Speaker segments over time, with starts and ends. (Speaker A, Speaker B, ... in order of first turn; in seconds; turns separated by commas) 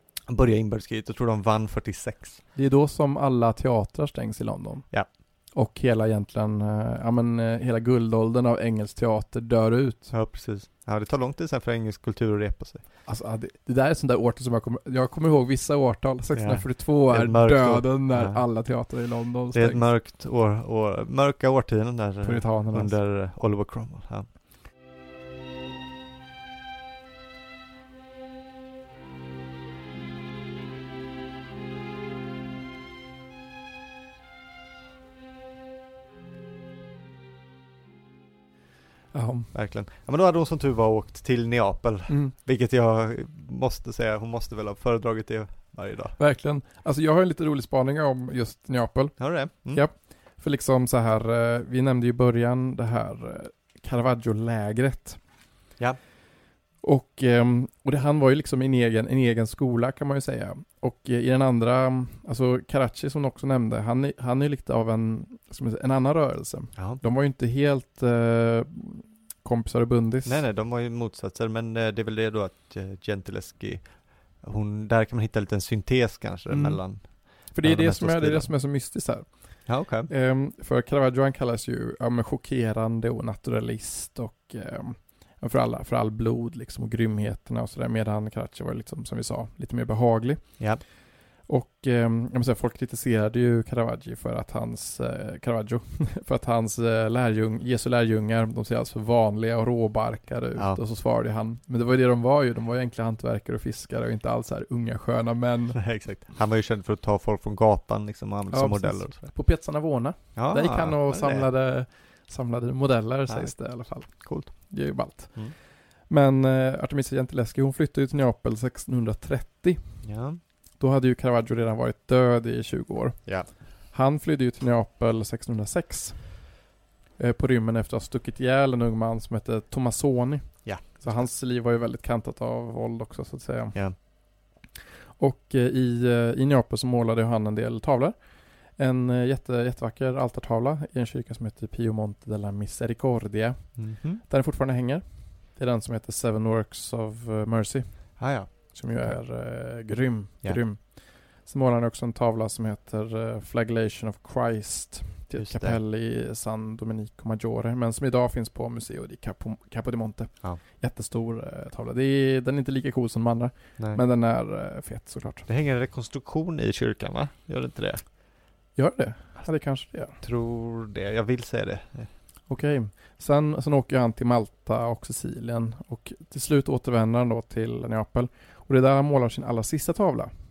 Speaker A: 0.3-2.4, Speaker B: 2.5-4.9, Speaker B: 5.5-10.1, Speaker A: 10.1-12.8, Speaker B: 13.1-19.9, Speaker A: 16.3-18.4, Speaker A: 19.5-24.3, Speaker B: 22.2-22.9, Speaker B: 39.1-39.5, Speaker A: 39.5-46.1, Speaker B: 42.1-42.3, Speaker B: 46.2-55.2, Speaker A: 49.2-49.8, Speaker B: 56.8-70.4, Speaker A: 66.8-67.0, Speaker A: 70.2-78.5, Speaker B: 76.5-90.7, Speaker A: 79.7-80.1, Speaker B: 91.5-105.8, Speaker A: 105.7-109.3, Speaker B: 108.5-119.8, Speaker A: 110.3-111.5, Speaker A: 114.1-114.5, Speaker A: 120.0-120.4, Speaker B: 120.8-123.3, Speaker B: 123.9-126.5, Speaker B: 127.2-134.0, Speaker A: 130.6-131.0, Speaker B: 135.2-138.2, Speaker B: 138.8-145.0, Speaker A: 143.8-144.2, Speaker B: 145.5-165.5, Speaker A: 148.2-149.2, Speaker A: 155.4-155.8, Speaker A: 165.5-168.0, Speaker B: 168.8-170.2, Speaker A: 170.2-172.1, Speaker B: 172.5-180.3